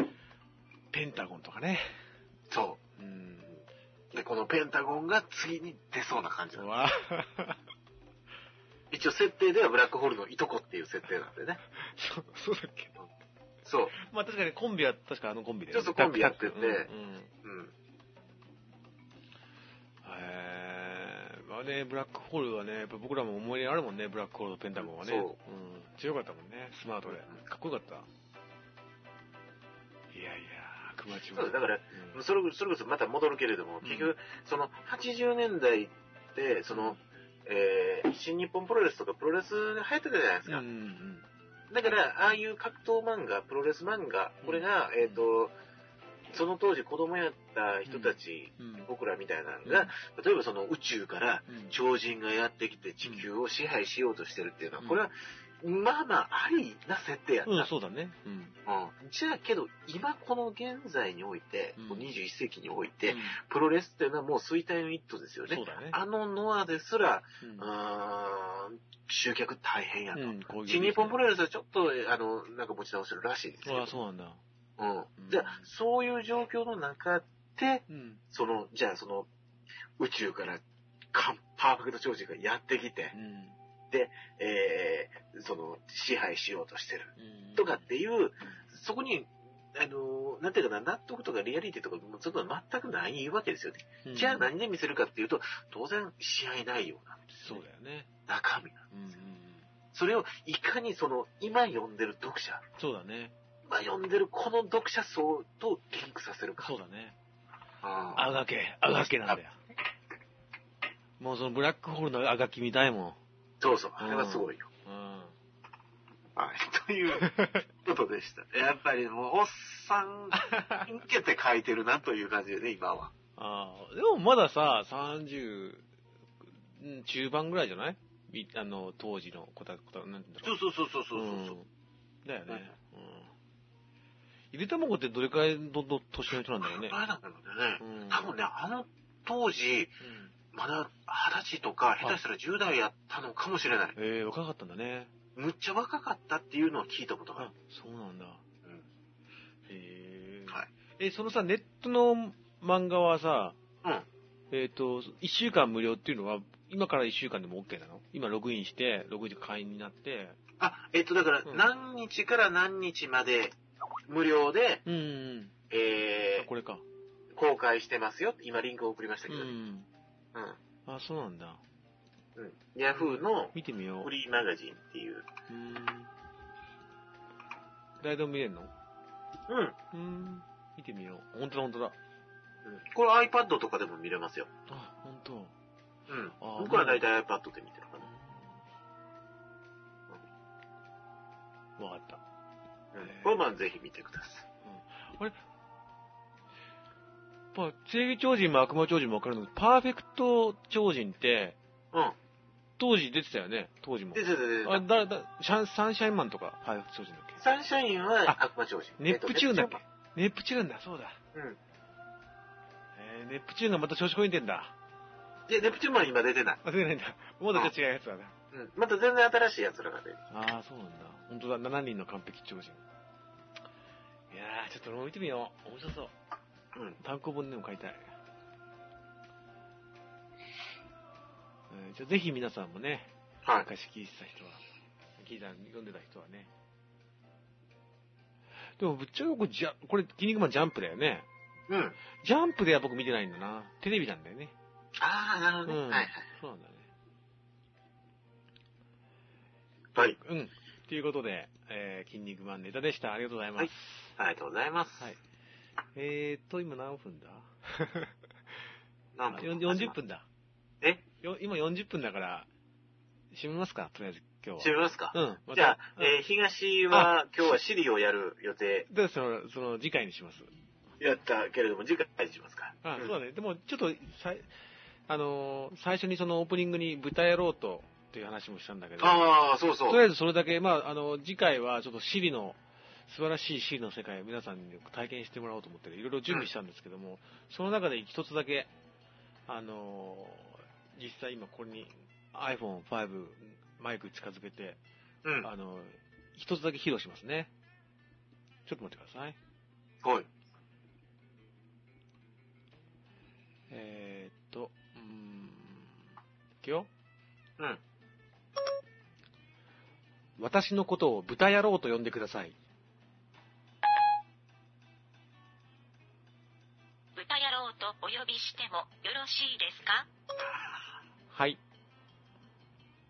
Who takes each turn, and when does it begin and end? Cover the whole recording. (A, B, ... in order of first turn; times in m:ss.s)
0:00.9-0:01.9 A
0:02.5-0:02.8 B
0:03.0-0:03.6 A
0:04.1-0:06.7 B
0:06.6-0:07.6 A
0:08.9-0:11.6 B
0:11.8-0:13.0 A
0:13.6-0:13.9 B
0:13.9-0:17.3 A
0:15.7-0:16.9 B
0:17.4-0:17.7 B
0:20.0-0:28.1 A
0:24.8-0:25.4 B
0:27.1-0:27.4 B
0:30.1-0:32.2 A
0:31.3-0:40.6 B
0:33.8-0:34.1 A
0:36.7-0:37.0 A
0:40.5-0:41.3 A
0:41.7-0:45.5 B
0:44.4-0:45.2 A
0:46.3-0:57.7 B
0:47.9-0:48.9 A
0:49.6-0:49.9 A
0:51.5-0:51.8 A
0:57.5-0:58.6 A
0:58.7-1:13.9 B
1:01.8-1:02.1 A
1:03.1-1:03.4 A
1:05.5-1:06.0 A
1:07.4-1:07.7 A
1:10.1-1:11.2 A
1:13.6-1:14.4 A
1:14.8-1:19.3 B
1:15.2-1:15.7 A
1:17.9-1:18.2 A
1:20.0-1:23.2 B
1:23.1-1:23.6 A
1:23.9-1:37.6 B
1:27.2-1:27.9 A
1:34.0-1:34.5 A
1:37.3-1:38.1 A
1:38.3-1:38.8 B
1:38.9-1:39.7 A
1:39.9-1:42.6 B
1:42.8-1:43.3 A
1:43.6-1:46.7 B
1:46.6-1:47.2 A
1:47.8-1:48.3 B
1:48.2-1:49.6 A
1:51.2-1:53.2 A
1:53.6-1:54.7 B
1:54.0-1:55.3 A
1:56.4-2:03.1 B
1:57.1-1:57.7 A
2:00.3-2:00.9 A
2:03.4-2:05.9 A
2:06.7-2:10.6 A
2:10.4-2:11.6 B
2:11.1-2:11.7 A
2:12.2-2:13.3 A
2:14.5-2:17.0 A
2:16.6-2:20.0 B
2:17.8-2:18.3 A
2:20.0-2:20.3 A
2:20.5-2:24.0 B
2:24.0-2:25.1 A
2:25.4-2:27.5 B
2:27.4-2:28.4 A
2:29.7-2:33.6 A
2:34.5-2:40.4 A
2:40.6-2:44.8 B
2:44.8-2:45.5 A
2:45.7-2:46.5 B
2:46.4-2:46.8 A
2:47.3-2:49.5 B
2:49.3-2:49.9 A
2:50.9-2:51.6 A
2:52.4-2:55.3 B
2:52.9-2:54.1 A
2:55.5-2:56.1 A
2:58.0-2:58.7 A
2:59.5-2:59.8 B
2:59.9-3:02.0 A
3:02.6-3:04.5 B
3:04.7-3:05.5 A
3:06.1-3:08.1 B
3:06.4-3:07.0 A
3:08.0-3:08.6 A
3:11.8-3:12.2 A
3:12.9-3:14.5 B
3:13.0-3:13.4 A
3:14.6-3:15.4 A
3:17.5-3:21.6 A
3:22.8-3:27.4 A
3:24.1-3:24.8 B
3:27.4-3:29.8 B
3:29.0-3:31.2 A
3:33.0-3:34.7 A
3:35.5-3:36.6 B
3:36.6-3:38.3 A
3:38.5-3:40.2 B
3:40.3-3:42.8 A
3:44.3-3:46.1 A
3:47.0-3:48.1 A
3:51.7-3:53.1 A
3:53.6-3:54.6 A
3:55.2-3:56.5 A
3:58.8-4:01.3 A
4:01.7-4:02.0 B
4:02.2-4:04.5 A
4:05.0-4:06.3 B
4:05.7-4:06.9 A
4:10.0-4:14.2 A
4:13.6-4:15.1 B
4:16.0-4:18.1 A
4:19.2-4:20.0 B
4:19.3-4:20.2 A
4:21.2-4:22.5 A
4:23.3-4:26.2 A
4:24.6-4:28.9 B
4:28.9-4:30.5 A
4:31.0-4:33.1 B
4:32.8-4:34.5 A
4:35.1-4:39.3 A
4:39.0-4:40.0 B
4:39.9-4:48.7 A
4:49.5-4:54.8 A
4:55.2-4:55.5 B
4:55.4-4:57.5 A
4:58.7-4:59.4 A
5:00.0-5:00.3 B
5:03.7-5:06.0 A
5:06.6-5:06.9 A
5:10.4-5:12.6 A
5:17.2-5:20.1 C
5:21.3-5:21.6 A